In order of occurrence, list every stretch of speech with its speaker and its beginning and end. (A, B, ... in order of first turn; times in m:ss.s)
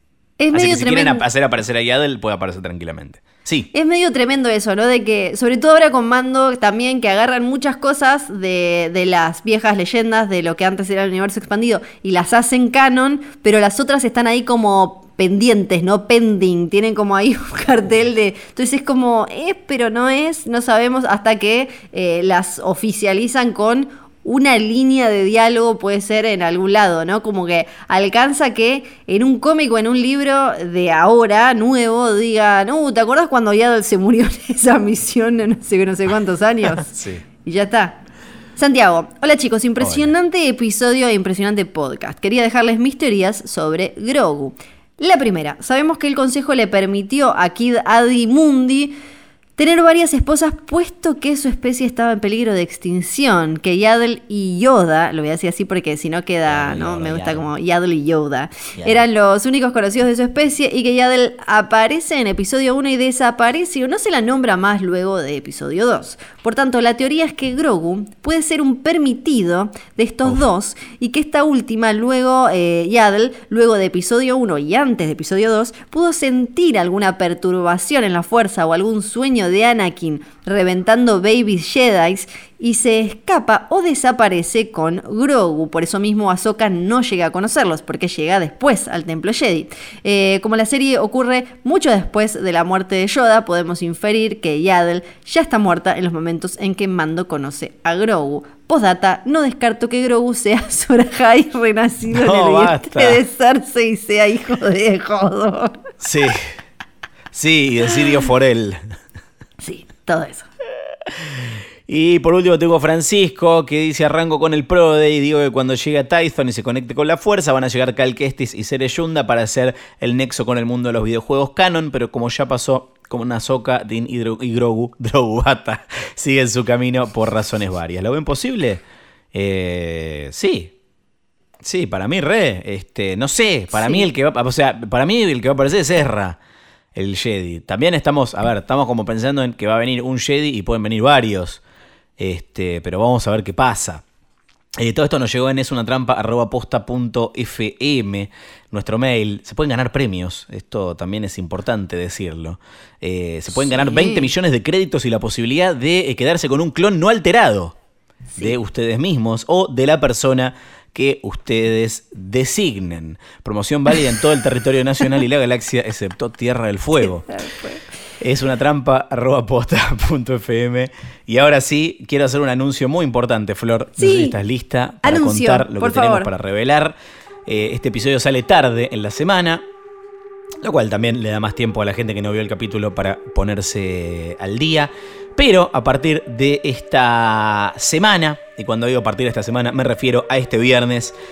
0:00.4-0:01.2 A
0:00.5-0:03.7 B
0:03.7-0:38.0 A
0:36.8-0:37.2 B
0:38.6-0:49.0 A
0:39.8-0:40.1 B
0:49.6-1:45.8 A
0:56.5-0:57.5 B
0:58.8-0:59.0 B
1:42.1-1:43.2 B
1:46.0-1:46.5 B
1:47.3-1:48.9 B
1:49.6-1:50.5 A
1:51.0-2:08.8 B
2:09.3-2:10.7 B
2:11.6-2:16.4 B
2:13.7-2:14.0 A
2:16.9-2:21.6 B
2:22.2-2:24.0 B
2:24.8-2:37.8 B
2:33.6-2:34.3 A
2:38.4-2:47.3 B
2:47.3-2:47.8 A
2:48.2-2:56.9 B
2:54.0-2:54.4 A
2:55.0-2:56.3 A
2:57.4-2:59.6 B
3:00.6-3:11.1 B